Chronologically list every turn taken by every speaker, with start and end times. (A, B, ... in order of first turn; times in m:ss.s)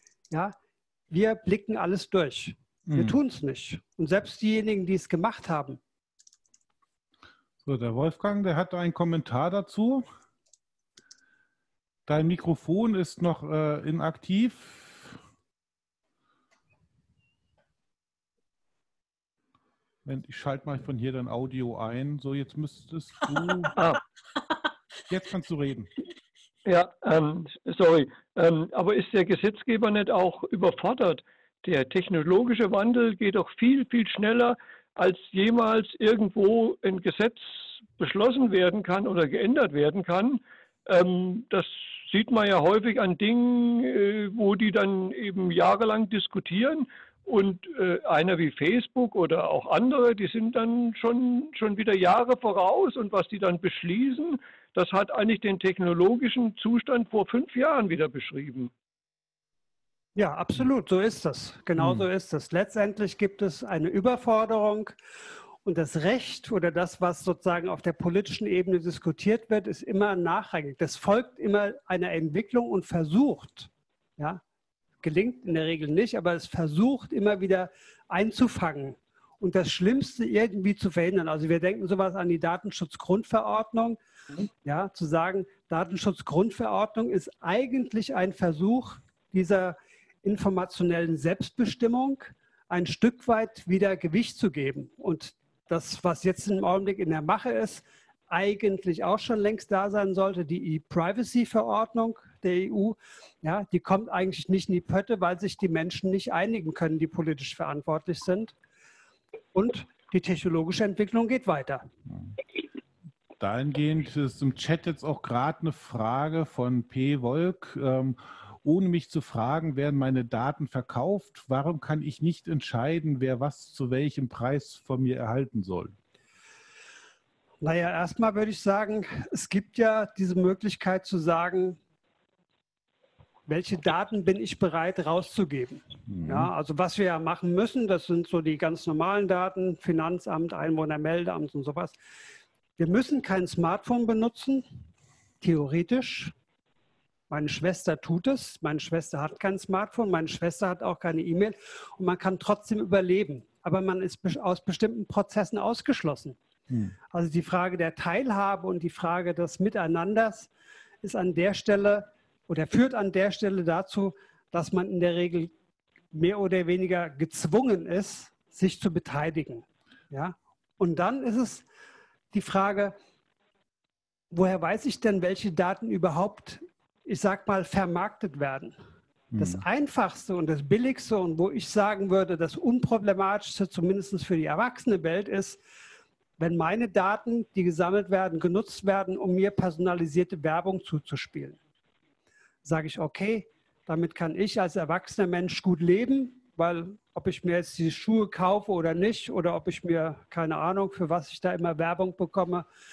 0:01.1-0:05.8 A
0:02.9-0:03.2 B
0:07.6-0:10.0 B
0:12.1-0:15.2 B
0:20.0-0:23.7 B
0:25.1-0:25.9 B
0:26.6-0:37.4 C
0:38.0-0:58.7 C
1:00.2-1:05.0 A
1:01.8-1:02.1 B
1:05.6-1:14.4 A
1:15.0-1:24.0 A
1:24.6-1:48.5 A
1:49.5-1:51.9 A
1:52.1-1:52.3 B
1:53.4-2:06.0 B
2:07.6-2:11.8 A
2:13.5-2:22.0 A
2:16.1-2:16.5 B
2:22.8-2:24.7 A
2:25.4-2:26.3 A
2:27.3-2:36.4 A
2:36.7-2:36.9 B
2:37.1-2:40.5 A
2:41.0-2:45.5 A
2:46.1-2:51.6 A
2:52.3-2:53.0 A
2:54.3-2:58.8 A
2:59.3-2:59.6 B
2:59.4-3:05.6 A
3:06.4-3:11.6 A
3:12.6-3:22.6 A